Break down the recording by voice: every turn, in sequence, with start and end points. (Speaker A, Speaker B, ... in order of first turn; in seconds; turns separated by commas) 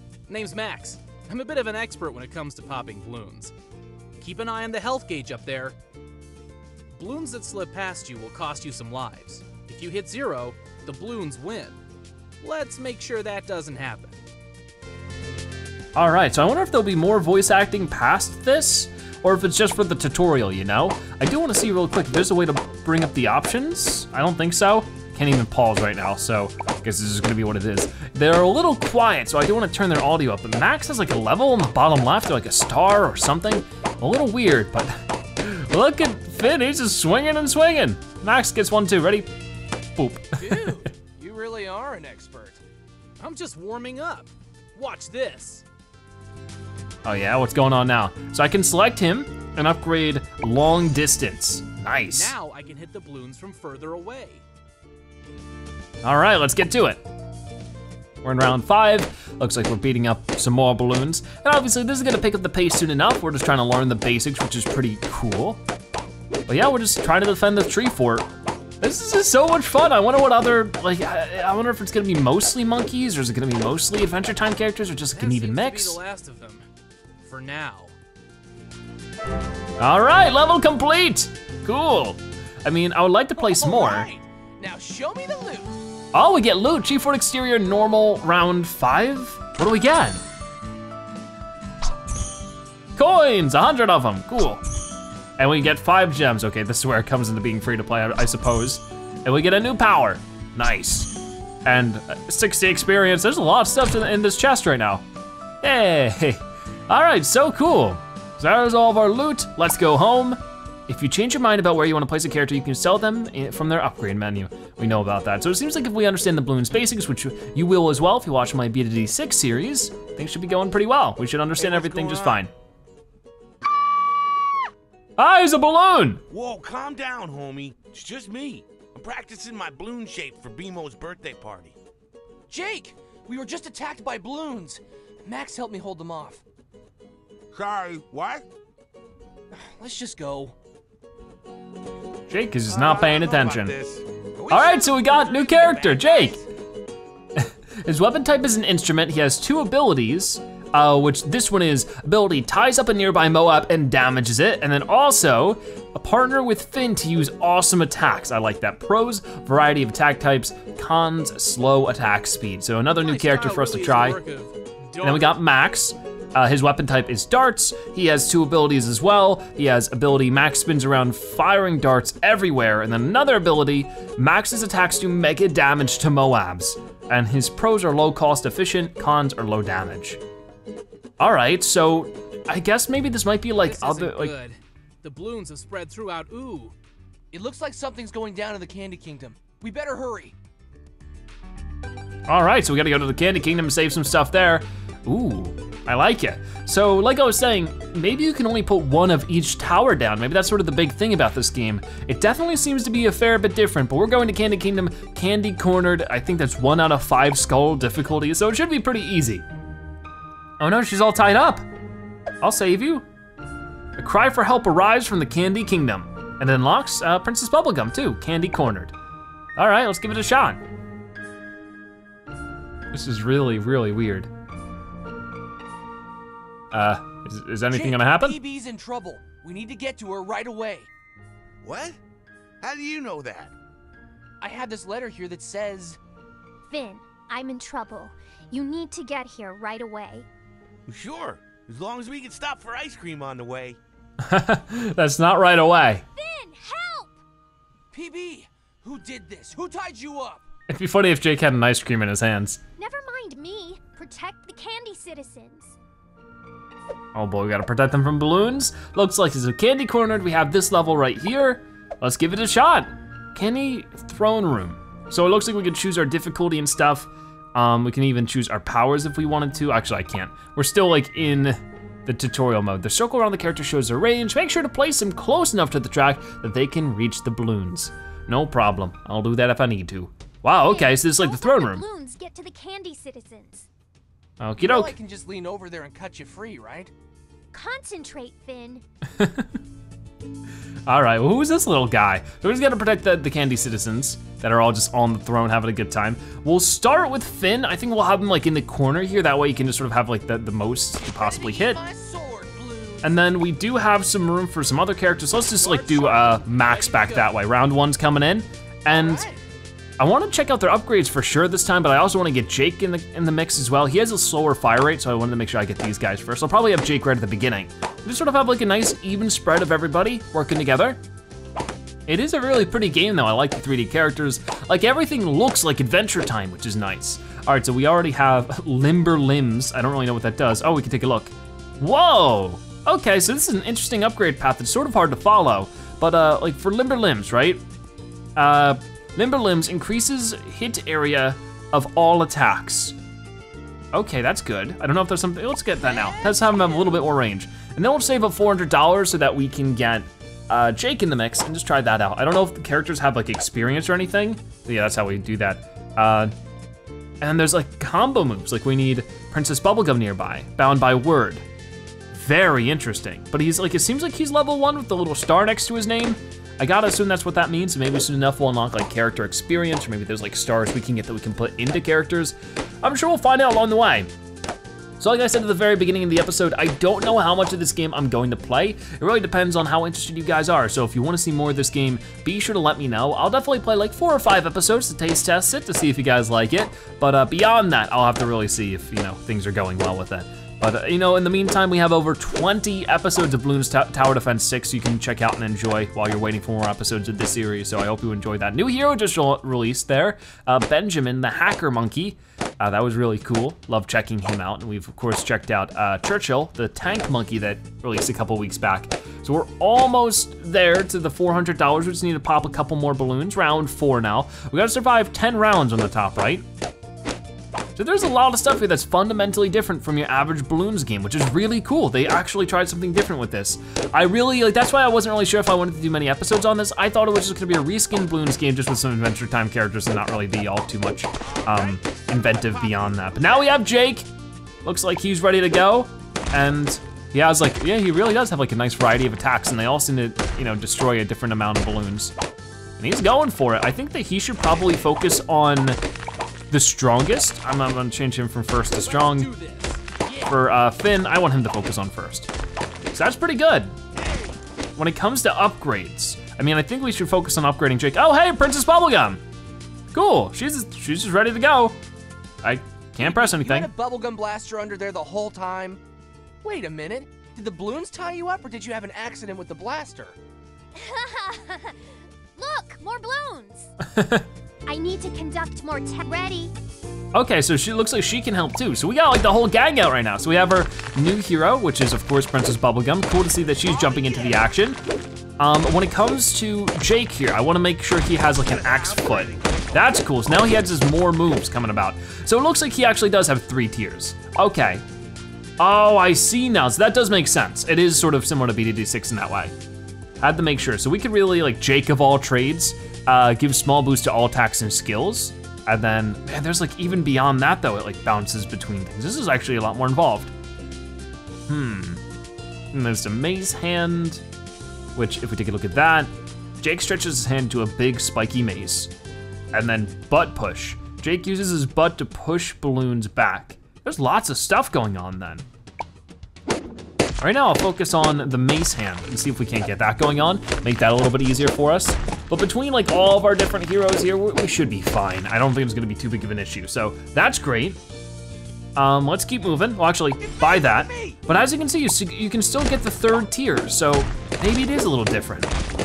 Speaker A: 0.3-3.5, Speaker A: 4.2-5.8, Speaker A: 6.9-11.8, Speaker A: 12.4-14.2, Speaker B: 15.9-39.3, Speaker B: 39.9-40.7, Speaker C: 40.4-42.6, Speaker A: 43.2-45.6, Speaker B: 47.0-52.3, Speaker A: 52.1-54.4, Speaker B: 56.0-57.0, Speaker B: 58.2-65.6, Speaker B: 66.5-68.3, Speaker B: 68.8-76.0, Speaker A: 75.1-76.6, Speaker A: 77.2-77.9, Speaker B: 79.8-84.1, Speaker C: 83.4-85.8, Speaker B: 86.1-90.2, Speaker B: 93.0-94.6, Speaker B: 95.4-101.1, Speaker B: 101.6-105.0, Speaker B: 105.6-122.5, Speaker D: 121.6-122.4, Speaker B: 125.2-126.2, Speaker D: 126.3-131.8, Speaker C: 132.5-136.4, Speaker D: 137.5-138.4, Speaker C: 139.5-140.6, Speaker B: 142.3-143.8, Speaker D: 142.7-146.4, Speaker B: 144.5-146.4, Speaker B: 147.4-164.2, Speaker A: 163.0-165.4, Speaker B: 165.0-180.2, Speaker B: 181.2-184.3, Speaker A: 183.6-186.8, Speaker C: 187.3-190.3, Speaker B: 192.3-209.4, Speaker B: 210.6-211.6, Speaker B: 212.4-213.1, Speaker B: 214.0-218.9, Speaker B: 219.6-220.6, Speaker B: 222.9-224.3, Speaker B: 226.7-228.4, Speaker C: 227.7-230.9, Speaker D: 231.6-232.0, Speaker D: 232.6-233.5, Speaker C: 234.4-236.0, Speaker E: 236.7-240.2, Speaker D: 240.9-243.8, Speaker B: 244.2-246.0, Speaker E: 246.1-247.2, Speaker C: 247.9-250.4, Speaker B: 250.7-252.6, Speaker E: 252.8-255.8, Speaker B: 257.1-281.9, Speaker E: 280.7-283.7, Speaker B: 284.4-284.9, Speaker C: 284.6-286.9, Speaker E: 287.5-288.8, Speaker B: 289.2-289.5, Speaker B: 290.9-301.8, Speaker C: 301.0-303.2, Speaker B: 303.0-309.3, Speaker A: 305.6-307.4, Speaker C: 308.9-309.4, Speaker B: 310.0-321.0, Speaker B: 322.1-337.6, Speaker B: 338.4-343.0, Speaker B: 343.9-356.3, Speaker C: 345.8-347.0, Speaker B: 357.2-361.4, Speaker B: 362.1-374.1, Speaker B: 375.0-416.5, Speaker B: 417.8-434.1, Speaker D: 431.2-433.6, Speaker B: 434.6-442.1, Speaker B: 442.8-445.8, Speaker B: 446.5-449.3, Speaker A: 448.8-449.9, Speaker C: 450.0-450.4, Speaker B: 450.3-452.3, Speaker B: 452.9-453.8, Speaker D: 453.9-454.4, Speaker B: 454.8-459.2, Speaker B: 459.9-461.8, Speaker B: 462.4-463.7, Speaker C: 463.0-465.8, Speaker C: 466.4-470.1, Speaker E: 470.8-473.7, Speaker B: 473.8-474.2, Speaker E: 474.6-476.5, Speaker B: 477.1-484.8, Speaker D: 483.6-484.5, Speaker B: 485.4-494.8, Speaker D: 488.4-490.0, Speaker B: 495.6-499.5, Speaker B: 500.2-510.3, Speaker B: 511.5-512.0, Speaker B: 512.7-514.2, Speaker B: 515.0-518.9, Speaker B: 519.5-525.5, Speaker B: 527.2-537.8, Speaker B: 538.8-545.5, Speaker D: 540.4-541.2